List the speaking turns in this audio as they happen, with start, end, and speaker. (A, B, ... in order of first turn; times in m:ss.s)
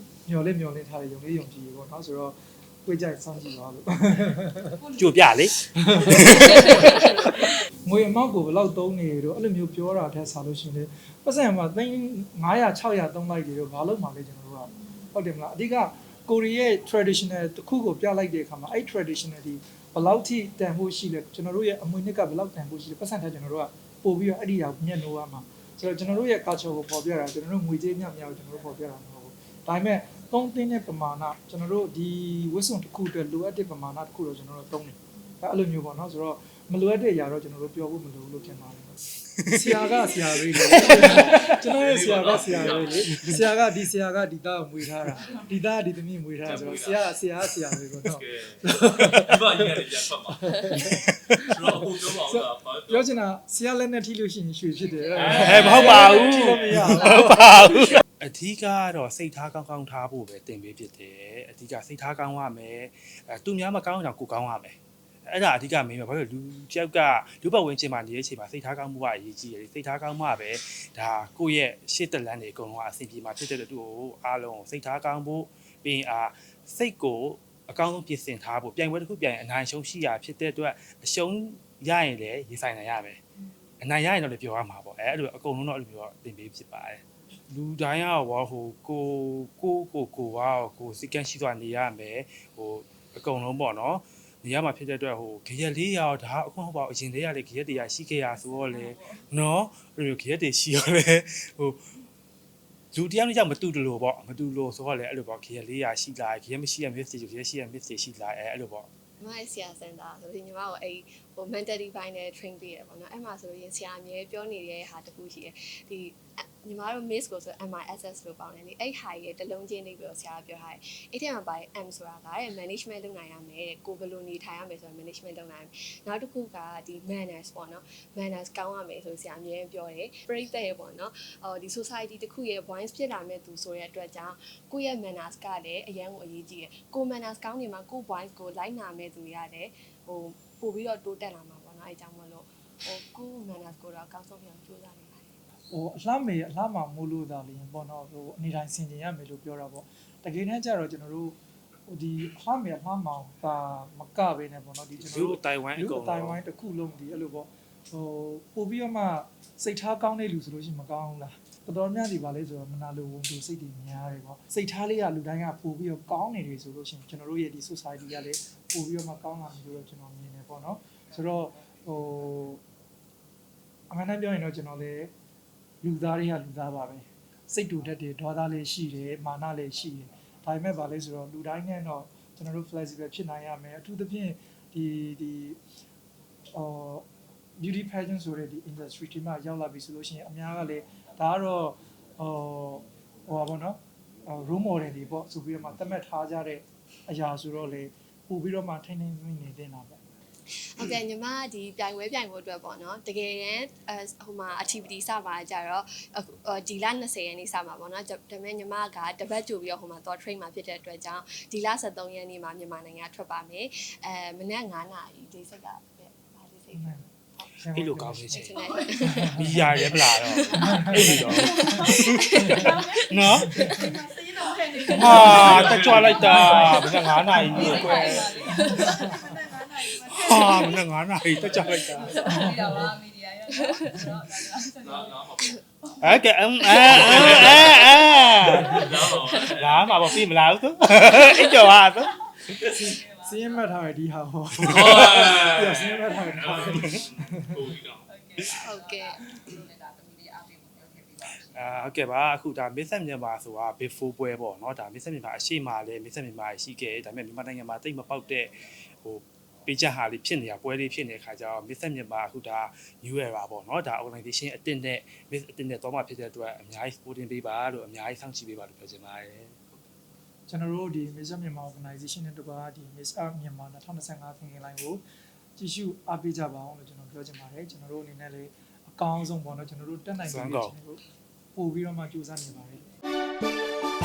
0:00.2-0:04.9 A
0:05.0-0:06.9 B
0:05.6-0:49.9 A
0:41.2-0:43.2 C
0:46.4-0:47.2 C
0:48.0-0:50.8 C
0:50.4-0:57.4 A
0:51.4-0:53.2 C
0:55.2-0:56.8 C
0:55.3-1:23.2 B
1:23.8-1:41.8 B
1:42.9-1:48.9 B
1:49.2-2:25.3 D
2:25.7-2:31.4 A
2:31.9-2:52.6 A
2:35.0-2:36.4 B
2:53.9-2:55.1 A
2:55.8-3:05.6 A
3:06.5-3:07.1 A
3:07.6-3:20.0 A
3:20.6-3:37.5 D
3:36.7-3:37.0 A
3:37.6-3:39.8 A
3:37.7-3:38.6 B
3:38.3-3:39.4 D
3:39.3-3:43.6 B
3:39.9-3:43.9 D
3:40.6-3:41.8 A
3:42.4-3:43.7 A
3:43.7-3:46.9 E
3:44.9-3:48.6 B
3:45.3-3:46.8 C
3:47.5-3:50.8 E
3:47.5-3:49.3 A
3:47.7-3:48.8 D
3:50.0-3:52.8 B
3:51.6-3:55.2 E
3:54.8-3:55.6 C
3:56.0-4:02.2 B
3:56.9-3:58.0 C
3:58.5-4:00.0 C
4:02.5-4:02.9 C
4:02.6-4:07.6 A
4:03.1-4:03.3 E
4:04.6-4:05.0 B
4:04.7-4:08.4 C
4:08.1-4:11.6 E
4:08.5-4:09.2 D
4:11.5-4:29.7 B
4:30.5-4:35.0 A
4:35.6-4:41.0 A
4:40.2-4:40.7 B
4:41.6-4:42.9 A